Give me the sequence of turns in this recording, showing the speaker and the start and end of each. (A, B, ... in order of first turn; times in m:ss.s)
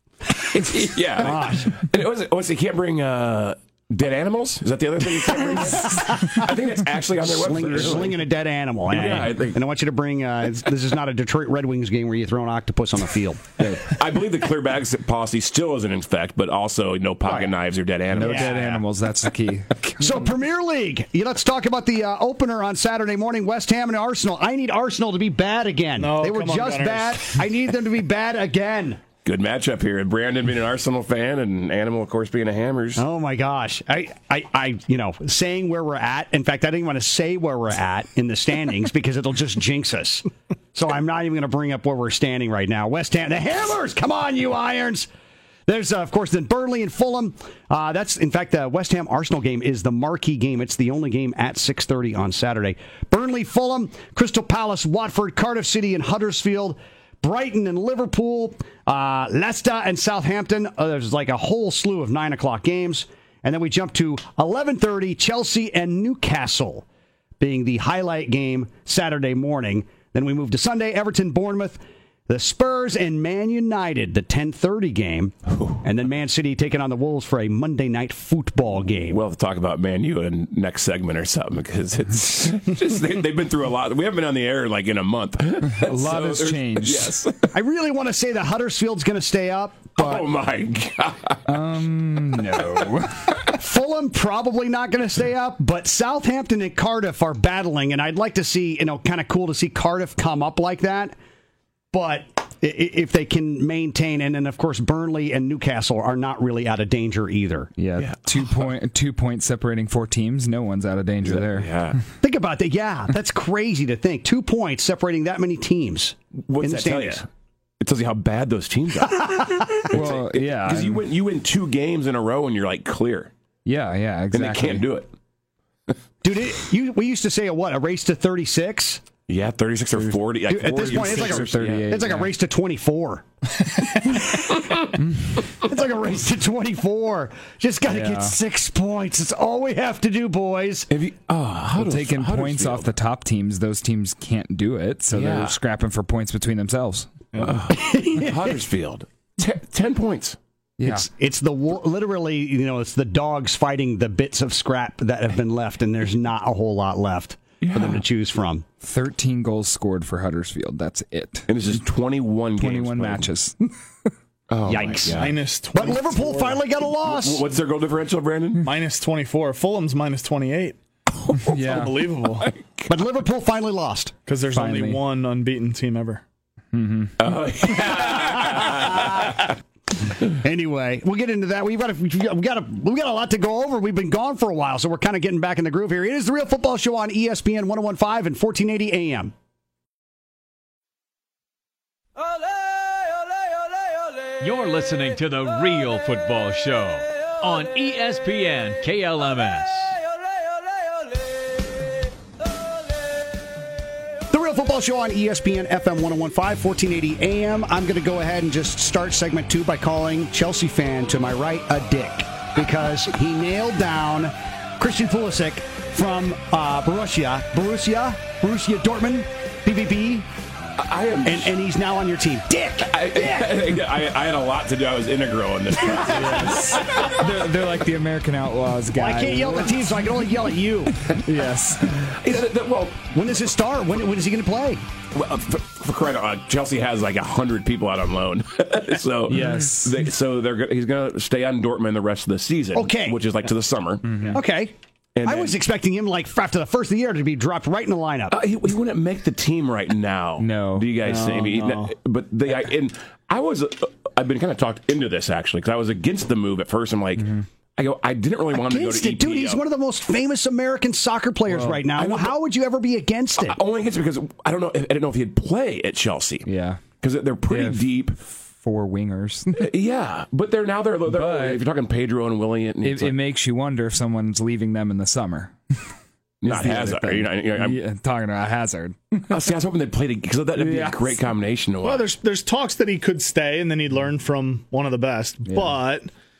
0:00.3-0:01.7 A
0:00.4-0:08.2 B
0:05.3-0:06.5 A
0:07.2-0:13.4 A
0:08.9-0:09.6 B
0:13.8-0:18.8 B
0:17.2-0:17.5 A
0:18.1-0:20.1 C
0:18.2-0:18.8 A
0:20.0-0:29.0 A
0:26.0-0:27.2 D
0:29.2-0:33.0 B
0:33.0-0:45.1 A
0:45.6-1:06.8 A
1:07.4-1:19.2 A
1:19.1-1:27.5 B
1:25.6-1:27.1 C
1:27.5-1:30.3 A
1:30.0-1:31.5 B
1:31.4-1:33.5 C
1:33.5-1:41.1 A
1:41.9-1:47.7 A
1:47.8-1:51.7 C
1:48.0-1:48.7 B
1:51.2-1:52.0 B
1:52.2-1:57.2 A
1:56.4-1:57.3 B
1:57.8-2:03.3 B
1:59.2-1:59.7 A
1:59.9-2:01.0 C
2:03.6-2:04.8 C
2:04.3-2:05.1 B
2:06.2-2:09.0 A
2:09.3-2:11.9 B
2:10.5-2:13.2 A
2:10.7-2:12.3 C
2:14.0-2:14.5 A
2:15.0-2:15.3 C
2:15.5-2:20.9 A
2:17.9-2:18.3 C
2:20.9-2:22.9 B
2:21.8-2:27.1 C
2:25.1-2:25.6 B
2:27.4-2:30.4 B
2:27.7-2:28.5 A
2:30.8-2:31.1 C
2:30.8-2:38.6 A
2:37.6-2:38.0 B
2:38.8-2:41.6 C
2:41.5-2:43.3 B
2:42.6-2:43.6 C
2:44.5-2:45.4 B
2:44.7-2:47.4 A
2:45.1-2:46.6 D
2:47.0-2:48.7 B
2:48.6-2:50.8 D
2:51.4-2:52.5 D
2:51.4-2:52.0 C
2:52.4-2:52.9 B
2:52.9-2:54.1 A
2:54.3-2:56.2 D
2:54.5-2:55.0 C
2:56.7-2:57.2 C
2:57.2-2:59.5 B
2:58.1-2:59.4 A
3:00.3-3:09.3 A
3:14.4-3:20.0 E
3:24.3-3:40.3 A
3:40.8-3:41.6 B
3:41.2-3:43.7 A
3:42.9-3:47.3 B
3:46.1-3:50.2 C
3:48.9-3:50.9 A
3:51.1-3:52.1 C
3:51.9-3:53.2 B
3:53.1-3:54.8 A
3:55.1-4:04.3 B
3:59.3-4:00.0 C
4:02.7-4:03.2 A
4:04.0-4:04.4 C
4:04.3-4:08.4 A
4:05.2-4:05.5 B
4:08.3-4:19.6 B
4:10.4-4:10.9 C
4:11.0-4:11.9 D
4:17.2-4:17.4 C
4:18.5-4:23.6 A
4:21.4-4:21.8 C
4:22.0-4:22.3 B
4:23.4-4:26.5 B
4:26.4-4:26.8 C
4:27.0-4:28.2 B
4:27.5-4:27.9 C
4:28.6-4:29.7 C
4:29.6-4:33.2 B
4:31.1-4:31.6 C
4:32.8-4:35.6 C
4:36.4-4:37.8 B
4:36.4-4:39.4 C
4:39.3-4:42.1 B
4:40.6-4:41.2 C
4:41.8-4:46.1 D
4:45.5-4:45.8 C